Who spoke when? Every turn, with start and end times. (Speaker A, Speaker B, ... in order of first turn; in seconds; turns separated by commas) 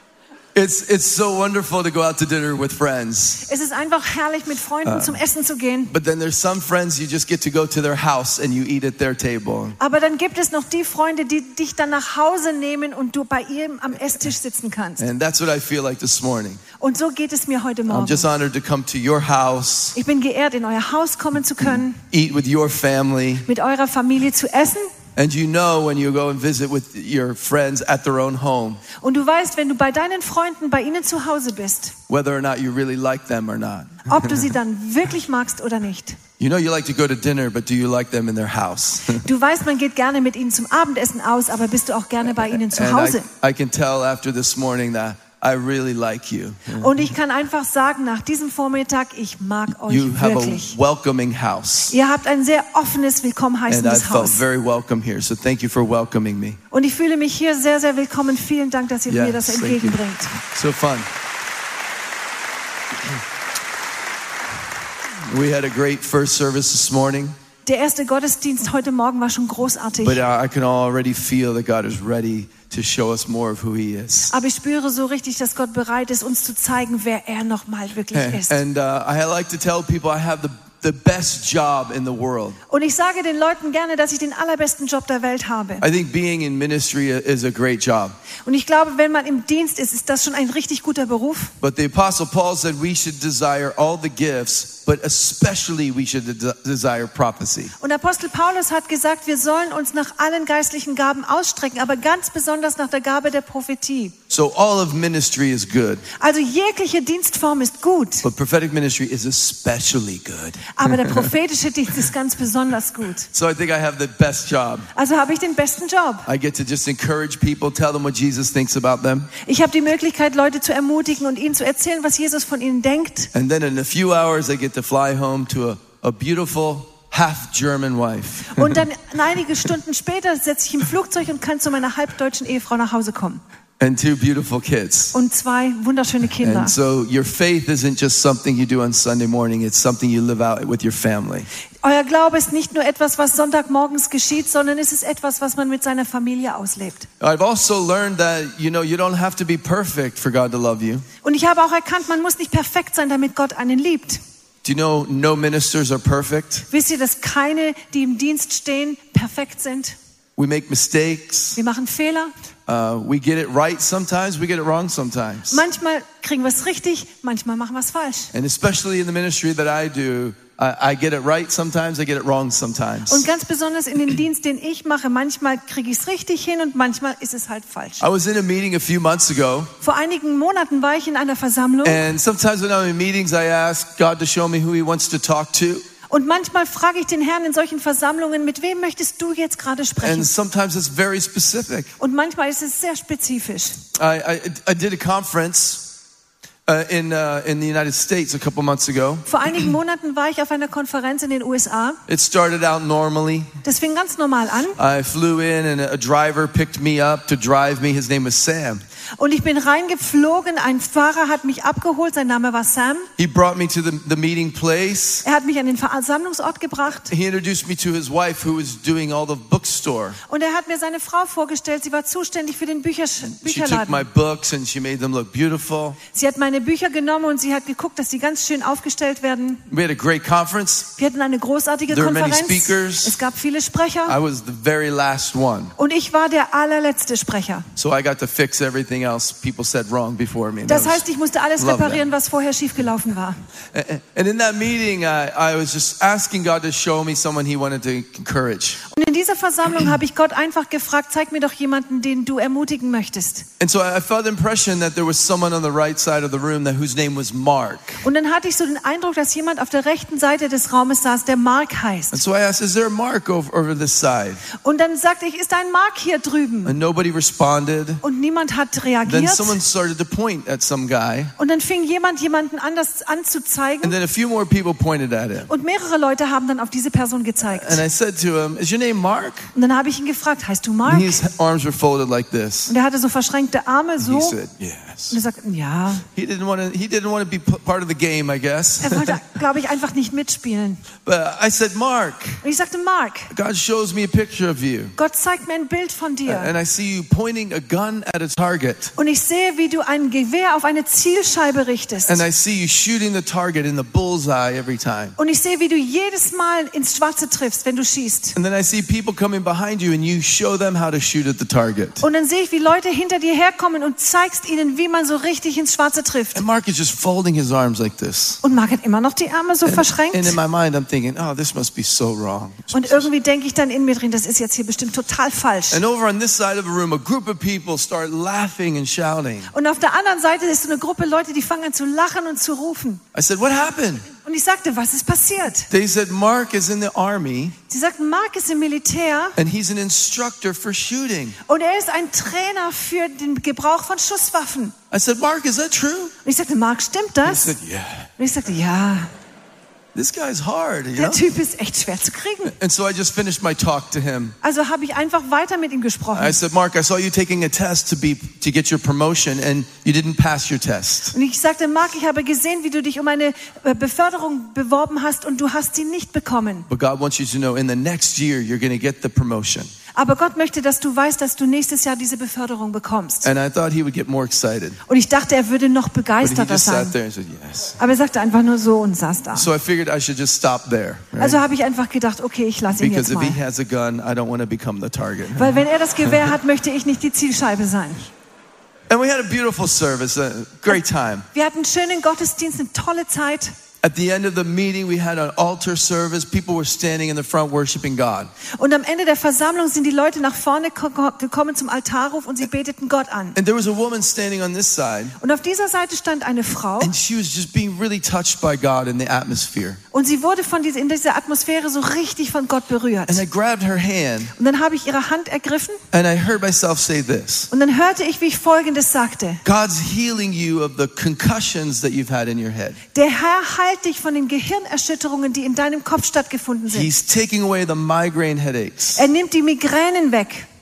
Speaker A: 0.6-3.5, Speaker B: 3.5-6.0, Speaker A: 4.8-5.2, Speaker A: 5.9-9.8, Speaker B: 9.8-15.1, Speaker A: 15.0-16.6, Speaker B: 16.8-18.3, Speaker A: 17.9-20.0, Speaker B: 19.9-22.0, Speaker A: 22.0-23.5, Speaker B: 23.5-24.9, Speaker A: 25.2-28.8, Speaker B: 29.0-32.0, Speaker A: 32.1-34.5, Speaker B: 34.1-36.2, Speaker A: 36.4-39.2, Speaker B: 39.1-43.3, Speaker A: 42.4-47.0, Speaker B: 46.8-50.8, Speaker A: 49.9-52.0, Speaker B: 51.9-54.4, Speaker A: 53.7-56.6, Speaker B: 56.7-60.4, Speaker A: 59.1-61.1, Speaker A: 65.3-67.4, Speaker B: 67.7-70.2, Speaker A: 70.0-74.3, Speaker B: 74.3-78.6, Speaker A: 78.1-82.6, Speaker B: 82.7-85.8, Speaker A: 85.8-88.2, Speaker B: 88.5-91.5, Speaker A: 91.6-97.8, Speaker B: 97.8-104.2, Speaker A: 104.3-106.1, Speaker B: 106.2-108.3, Speaker A: 108.2-111.3, Speaker B: 110.7-113.3, Speaker A: 113.3-114.9, Speaker B: 115.0-116.3, Speaker A: 116.3-119.3, Speaker B: 119.4-123.3, Speaker A: 123.3-128.8, Speaker B: 128.5-133.4, Speaker A: 133.8-135.2, Speaker B: 135.1-136.8, Speaker A: 136.4-141.5, Speaker B: 141.8-147.1, Speaker A: 147.2-151.1, Speaker B: 151.2-154.2, Speaker A: 154.6-156.7, Speaker B: 156.7-160.0, Speaker A: 160.4-161.6, Speaker B: 161.6-162.3, Speaker A: 162.7-165.6, Speaker B: 165.5-168.3, Speaker A: 168.3-173.3, Speaker B: 173.1-178.0, Speaker A: 178.0-179.7, Speaker B: 179.8-182.0, Speaker A: 181.8-185.8, Speaker B: 186.1-190.3, Speaker A: 190.0-191.9, Speaker B: 192.0-193.8, Speaker A: 193.9-195.9, Speaker A: 196.7-199.3, Speaker B: 199.3-202.0, Speaker A: 202.1-203.5, Speaker B: 203.6-204.8, Speaker A: 204.8-208.8, Speaker B: 209.2-213.1, Speaker A: 213.2-215.2, Speaker B: 215.2-217.1, Speaker A: 217.1-220.2, Speaker B: 220.3-224.1, Speaker A: 223.4-226.0, Speaker B: 226.1-229.7, Speaker A: 229.7-230.9, Speaker B: 231.0-234.2, Speaker A: 231.9-233.2, Speaker A: 234.1-235.8, Speaker B: 235.8-237.7, Speaker A: 237.8-241.1, Speaker B: 240.7-243.4, Speaker A: 241.6-242.1, Speaker A: 243.7-248.8, Speaker B: 248.9-253.5, Speaker A: 253.6-258.0, Speaker B: 258.0-262.2, Speaker A: 262.1-264.4, Speaker B: 264.6-266.8, Speaker A: 266.7-268.0, Speaker B: 268.0-269.6, Speaker A: 269.1-271.3, Speaker B: 271.4-273.9, Speaker A: 273.8-275.5, Speaker B: 275.5-277.8, Speaker A: 277.4-279.5, Speaker B: 279.5-281.2, Speaker A: 280.9-282.7, Speaker B: 282.7-284.4, Speaker A: 284.0-285.2, Speaker B: 285.1-286.1, Speaker A: 286.2-289.2, Speaker B: 288.8-290.8, Speaker A: 291.1-292.4, Speaker B: 292.4-293.3, Speaker A: 293.3-295.0, Speaker B: 295.0-296.5, Speaker A: 296.3-298.9, Speaker B: 299.0-302.2, Speaker A: 302.1-305.1, Speaker B: 305.2-308.4, Speaker A: 308.4-312.0, Speaker B: 312.0-316.4, Speaker A: 316.4-318.4, Speaker B: 318.4-320.4, Speaker A: 319.6-323.1, Speaker B: 322.7-325.8, Speaker A: 325.7-329.5, Speaker B: 329.5-333.0, Speaker A: 333.1-334.1, Speaker B: 334.1-335.7, Speaker A: 335.7-337.6, Speaker B: 337.7-339.4, Speaker A: 339.4-341.4, Speaker B: 341.5-344.8, Speaker A: 344.9-346.1, Speaker B: 346.2-347.6, Speaker A: 347.2-348.1, Speaker B: 348.2-349.1, Speaker A: 349.9-351.2, Speaker B: 351.0-352.6, Speaker A: 352.5-354.4, Speaker B: 354.4-356.4, Speaker A: 356.1-361.1, Speaker B: 361.1-366.7, Speaker A: 366.7-369.7, Speaker B: 369.9-373.3, Speaker A: 373.2-374.8, Speaker B: 374.9-376.9, Speaker A: 376.2-377.8, Speaker B: 377.8-379.5, Speaker A: 379.3-381.4, Speaker B: 381.2-383.4, Speaker A: 382.8-386.3, Speaker B: 385.4-388.1, Speaker A: 388.9-391.3, Speaker B: 391.3-393.5, Speaker A: 393.8-398.3, Speaker B: 398.6-403.4, Speaker A: 403.4-405.2, Speaker B: 405.2-406.9, Speaker A: 406.8-409.8, Speaker B: 409.9-413.2, Speaker A: 413.1-414.3, Speaker B: 414.4-415.8, Speaker A: 415.9-417.5, Speaker B: 417.5-419.4, Speaker A: 419.4-422.8, Speaker B: 422.9-426.9, Speaker A: 426.7-429.1, Speaker B: 428.9-430.5